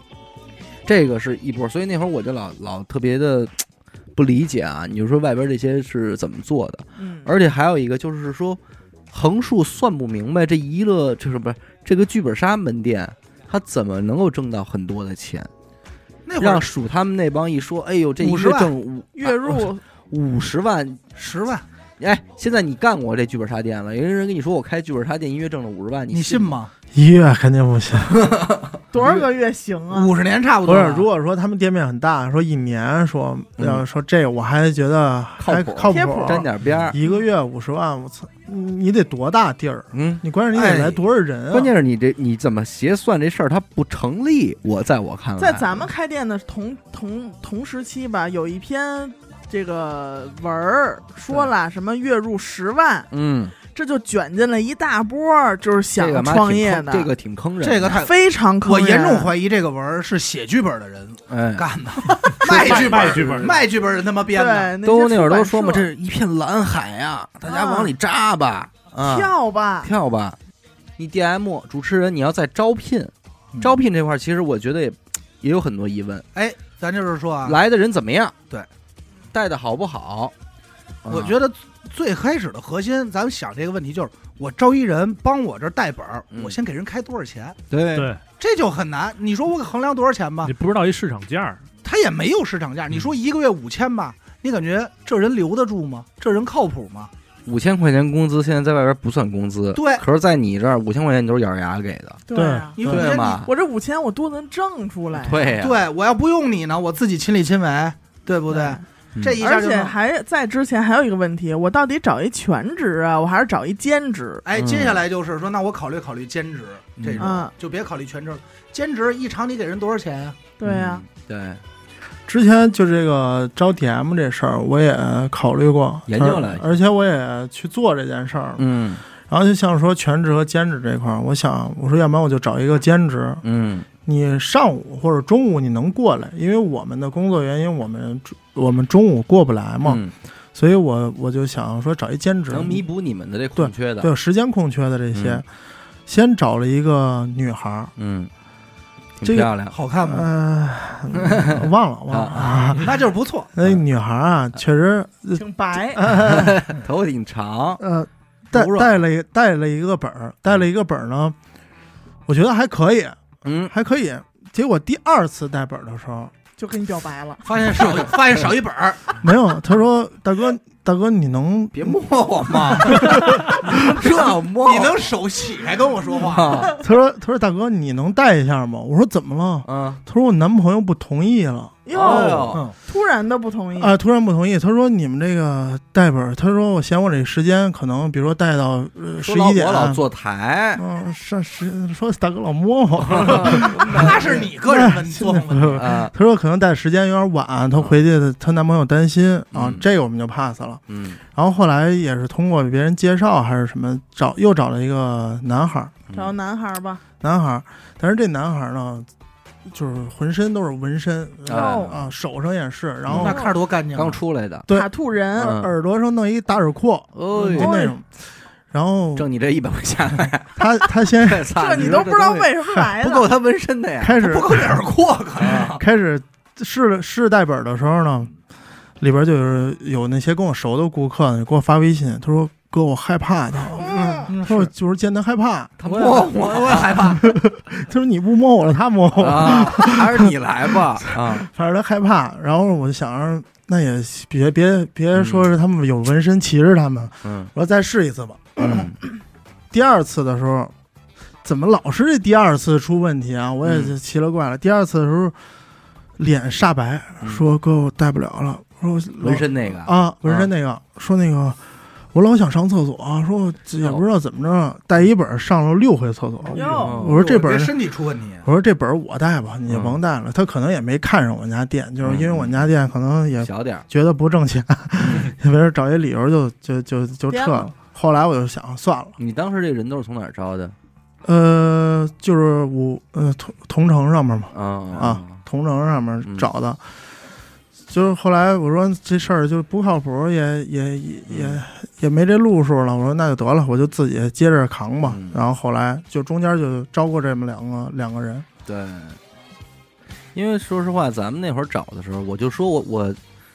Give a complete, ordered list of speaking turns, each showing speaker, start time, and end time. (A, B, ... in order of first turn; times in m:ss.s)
0:00.9-0:03.6 A
0:04.2-0:08.6 A
0:07.0-0:07.3 B
0:09.1-0:15.5 A
0:16.3-0:16.7 C
0:16.4-0:21.0 A
0:18.2-0:18.7 C
0:19.2-0:19.8 B
0:21.2-0:21.6 C
0:22.0-0:26.5 A
0:26.1-0:26.7 C
0:26.9-0:28.2 D
0:28.1-0:28.6 A
0:28.9-0:30.1 B
0:29.9-0:31.1 C
0:30.6-0:41.7 D
0:33.6-0:33.8 A
0:35.4-0:37.0 A
0:35.8-0:36.5 B
0:39.9-0:40.8 A
0:40.6-0:41.0 C
0:41.5-0:45.9 A
0:45.4-0:53.1 B
0:53.1-0:53.6 A
0:53.7-0:57.1 B
0:56.0-0:58.0 A
0:57.6-1:04.8 C
0:57.9-0:59.3 B
1:01.3-1:01.7 A
1:02.2-1:03.2 B
1:02.5-1:03.6 E
1:02.5-1:03.5 A
1:04.3-1:05.9 B
1:04.8-1:10.4 A
1:07.4-1:07.9 B
1:09.0-1:09.9 B
1:11.0-1:16.3 A
1:13.5-1:13.8 C
1:16.4-1:17.6 C
1:17.4-1:18.4 A
1:19.3-1:20.3 A
1:21.0-1:21.4 A
1:21.1-1:27.6 C
1:26.3-1:26.6 A
1:27.7-1:28.1 A
1:27.9-1:28.2 E
1:28.4-1:30.5 C
1:30.4-1:31.6 E
1:31.8-1:37.1 C
1:37.5-1:42.2 A
1:39.8-1:40.0 C
1:42.3-1:45.6 B
1:42.3-1:43.1 D
1:42.8-1:43.4 C
1:42.9-1:43.5 A
1:45.2-1:45.8 A
1:45.6-1:50.0 C
1:48.5-1:48.8 B
1:49.4-1:54.4 B
1:54.4-2:00.4 C
1:54.5-1:55.0 A
1:57.0-1:57.3 A
1:57.2-1:57.5 B
2:00.6-2:01.0 B
2:00.6-2:01.6 A
2:02.3-2:08.7 D
2:06.1-2:06.8 A
2:08.6-2:09.0 A
2:09.2-2:13.4 D
2:13.4-2:13.9 A
2:14.0-2:20.0 D
2:19.8-2:20.1 A
2:20.6-2:22.8 D
2:22.5-2:24.1 A
2:23.6-2:25.4 D
2:25.1-2:25.4 A
2:26.1-2:27.9 D
2:28.0-2:28.3 A
2:29.2-2:29.8 A
2:29.2-2:32.9 D
2:29.7-2:30.3 C
2:31.2-2:32.8 A
2:32.8-2:33.5 C
2:33.6-2:36.6 D
2:35.4-2:36.0 B
2:36.1-2:37.8 A
2:37.8-2:41.4 D
2:38.5-2:39.0 C
2:42.3-2:46.3 D
2:43.4-2:43.7 A
2:46.6-2:47.5 B
2:47.4-2:49.2 C
2:49.2-2:52.0 D
2:51.7-2:55.1 A
2:52.5-2:54.0 D
2:54.1-2:56.8 C
2:56.2-2:56.7 A
2:56.8-3:02.6 D
2:59.6-3:00.0 A
3:01.8-3:04.0 B
3:01.9-3:02.6 A
3:03.8-3:10.0 D
3:09.2-3:10.8 A
3:10.8-3:25.9 D
3:13.0-3:14.5 A
3:13.6-3:15.9 C
3:15.8-3:16.1 A
3:19.5-3:19.8 A
3:20.9-3:21.2 A
3:26.1-3:26.3 A
3:26.1-3:27.0 B
3:27.2-3:29.1 D
3:29.7-3:33.4 D
3:31.5-3:32.0 A
3:31.5-3:32.0 B
3:33.1-3:33.4 A
3:33.2-3:34.2 C
3:33.3-3:33.5 B
3:33.9-3:34.7 A
3:34.7-3:38.1 D
3:34.7-3:35.6 B
3:35.4-3:35.7 A
3:37.2-3:37.8 A
3:37.6-3:38.0 B
3:38.7-3:39.3 D
3:39.2-3:44.2 A
3:40.6-3:42.0 D
3:41.5-3:43.3 B
3:44.0-3:44.8 D
3:44.2-3:45.8 C
3:45.4-3:45.8 A
3:45.7-3:48.3 D
3:49.0-3:55.8 D
3:53.8-3:54.3 B
3:54.3-3:54.7 C
3:55.8-3:57.2 A
3:55.8-3:57.2 C
3:57.2-4:09.0 D
3:59.2-4:01.5 A
4:05.1-4:05.5 A
4:07.2-4:07.5 A
4:08.6-4:09.0 A
4:09.7-4:10.7 D
4:11.4-4:15.4 D
4:13.6-4:14.0 A
4:16.2-4:21.6 D
4:19.2-4:20.5 A
4:22.1-4:27.8 D
4:26.5-4:27.1 B
4:26.8-4:27.2 A
4:27.1-4:28.5 C
4:28.4-4:39.2 D
4:29.7-4:30.0 A
4:32.0-4:32.7 A
4:33.4-4:33.9 A
4:35.0-4:35.3 A
4:37.3-4:37.7 B
4:39.2-4:40.8 A
4:41.2-4:46.8 D
4:44.5-4:45.4 A
4:47.9-4:58.5 D
4:51.3-4:51.6 A
4:55.1-4:55.4 A
4:58.7-4:59.2 A
5:00.4-5:03.2 A